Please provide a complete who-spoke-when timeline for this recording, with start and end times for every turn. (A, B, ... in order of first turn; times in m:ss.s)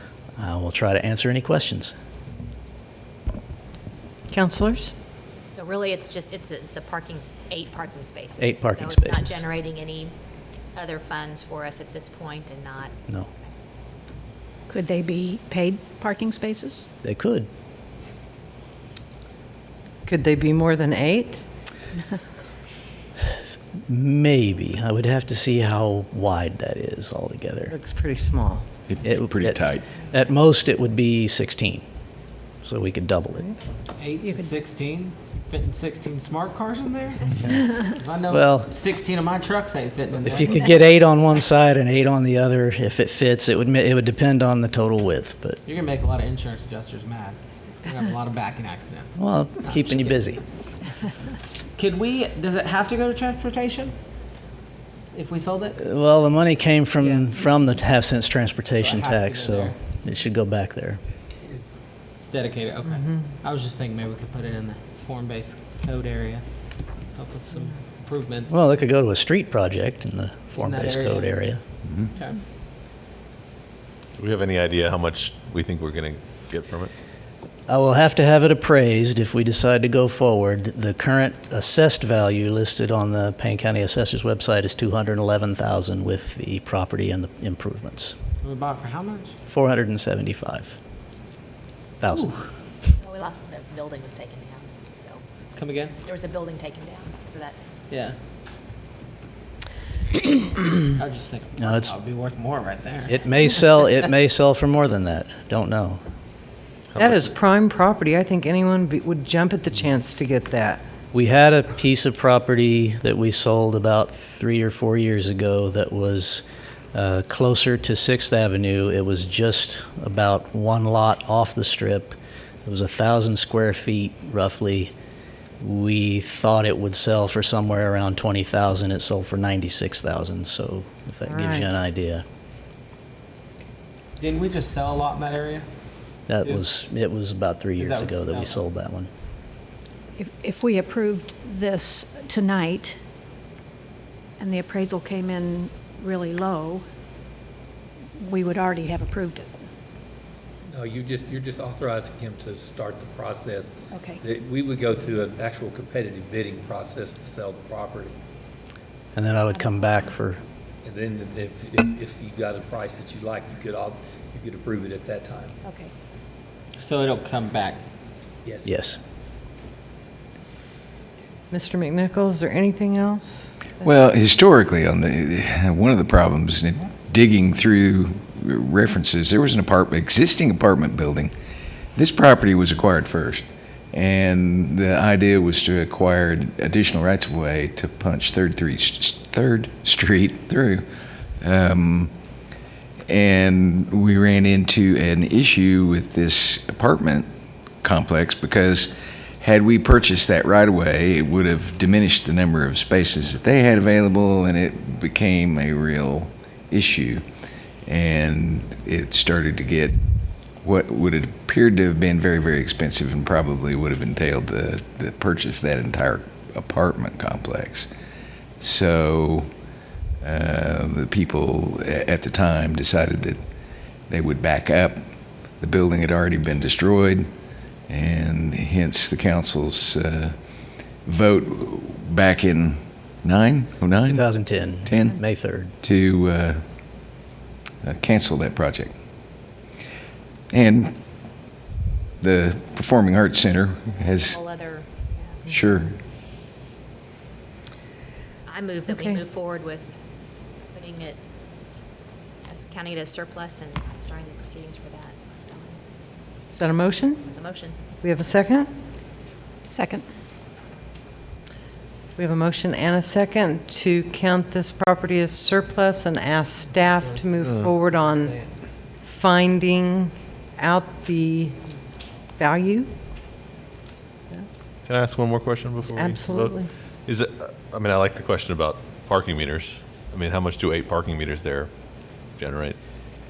0:00.4-0:01.9 A
0:04.3-0:04.9 B
0:05.5-0:10.1 C
0:08.4-0:09.4 A
0:10.7-0:12.9 C
0:14.7-0:16.9 D
0:17.0-0:17.5 A
0:20.0-0:21.4 B
0:23.9-0:27.8 A
0:27.7-0:28.7 B
0:28.9-0:29.9 E
0:29.0-0:31.8 A
0:32.6-0:33.5 A
0:34.0-0:40.6 F
0:38.3-0:38.7 A
0:40.2-0:45.6 A
0:45.6-0:50.2 F
0:49.2-0:50.4 A
0:51.8-0:53.9 F
0:55.1-0:55.8 F
0:55.8-1:01.0 A
0:57.0-0:57.2 F
0:58.8-0:59.7 F
1:02.2-1:08.5 F
1:08.5-1:11.6 A
1:10.6-1:11.4 F
1:12.1-1:12.4 F
1:14.2-1:16.9 G
1:17.7-1:28.2 A
1:28.4-1:29.3 F
1:29.5-1:30.8 A
1:32.0-1:32.3 A
1:32.9-1:35.2 C
1:35.5-1:35.9 F
1:36.0-1:37.6 C
1:37.9-1:38.2 F
1:40.9-1:43.1 F
1:41.6-1:41.9 A
1:43.1-1:46.0 A
1:46.9-1:47.3 G
1:47.0-1:50.8 B
1:51.1-1:56.4 A
1:56.9-2:04.9 A
2:05.6-2:12.2 A
2:11.3-2:11.6 B
2:14.2-2:15.6 F
2:16.3-2:19.1 A
2:17.8-2:18.6 F
2:20.2-2:23.0 D
2:24.4-2:26.8 D
2:28.2-2:29.5 D
2:30.7-2:38.2 H
2:33.9-2:34.2 D
2:39.1-2:40.4 A
2:39.5-2:40.0 D
2:40.8-2:45.6 H
2:45.6-2:45.9 D
2:46.8-2:47.8 F
2:48.4-2:48.8 H
2:48.6-2:49.0 A
2:51.5-2:53.5 B
2:53.8-3:01.3 E
3:01.9-3:10.8 E
3:11.4-3:12.1 E
3:13.1-3:17.3 E
3:17.8-3:27.2 E
3:27.8-3:30.0 E
3:30.6-3:37.9 E
3:38.6-3:39.5 E
3:40.2-3:43.4 E
3:44.1-3:45.0 E
3:45.6-3:47.3 E
3:47.9-3:50.4 E
3:51.0-3:55.2 E
3:54.0-3:55.7 A
3:55.8-3:56.6 E
3:57.8-3:58.9 E
4:00.5-4:00.9 E
4:02.2-4:04.4 E
4:04.0-4:05.4 C
4:05.5-4:06.0 E
4:08.5-4:10.0 C
4:08.9-4:09.2 B
4:10.7-4:11.2 C
4:12.4-4:15.8 C
4:16.5-4:17.2 B
4:17.2-4:17.9 C
4:18.0-4:18.7 B
4:19.7-4:20.0 D
4:22.2-4:28.3 B
4:26.7-4:28.5 F
4:27.4-4:27.7 G
4:29.0-4:31.6 B
4:32.4-4:32.9 B
4:34.8-4:41.7 G
4:36.0-4:36.7 B
4:42.3-4:42.8 G